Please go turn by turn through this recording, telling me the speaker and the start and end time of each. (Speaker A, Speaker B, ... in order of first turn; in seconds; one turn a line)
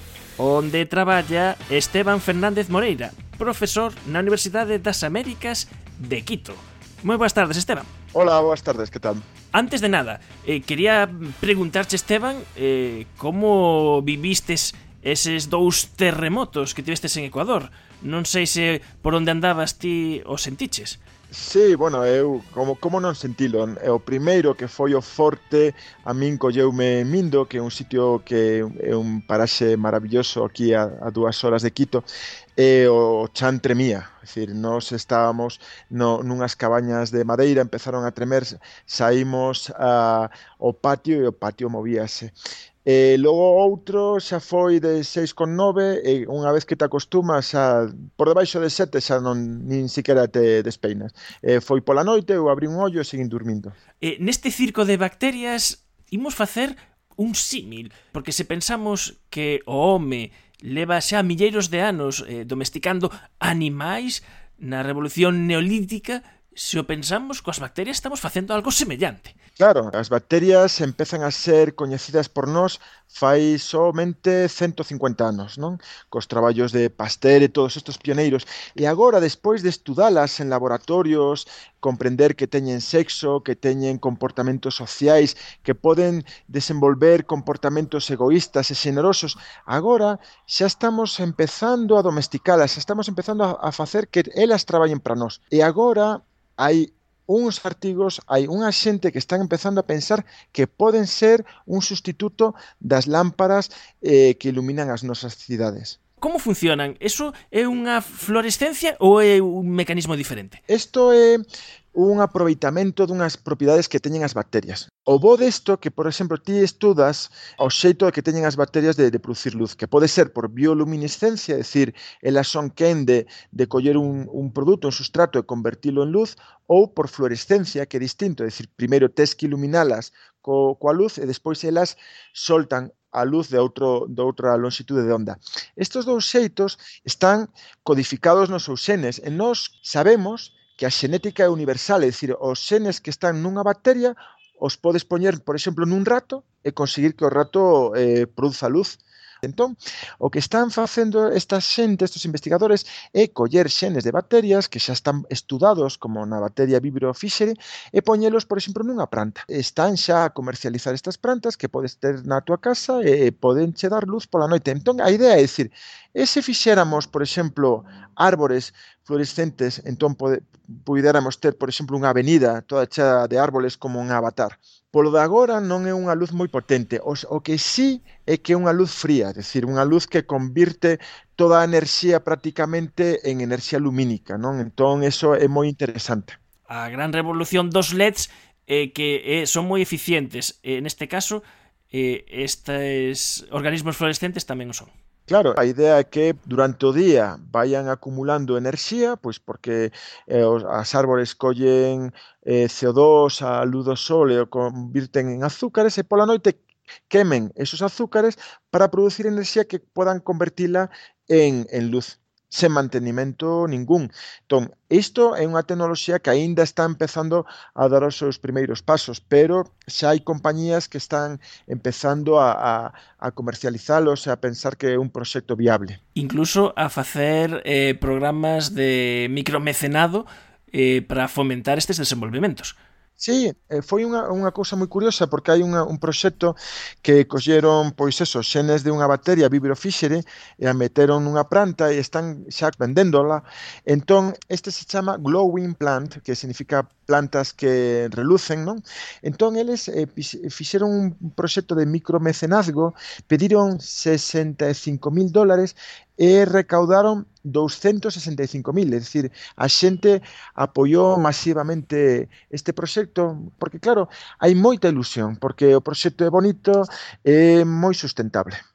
Speaker A: 0.4-7.9
Speaker B: 8.1-9.2
Speaker A: 9.5-21.0
Speaker B: 21.3-32.0
Speaker B: 32.6-42.3
Speaker B: 42.8-53.7
Speaker A: 54.0-69.4
Speaker B: 69.6-106.0
Speaker A: 106.2-110.6
Speaker B: 110.7-111.4
Speaker B: 111.9-186.4
Speaker A: 186.7-194.9
Speaker B: 195.3-226.0
Speaker A: 226.2-232.8
Speaker B: 233.2-268.6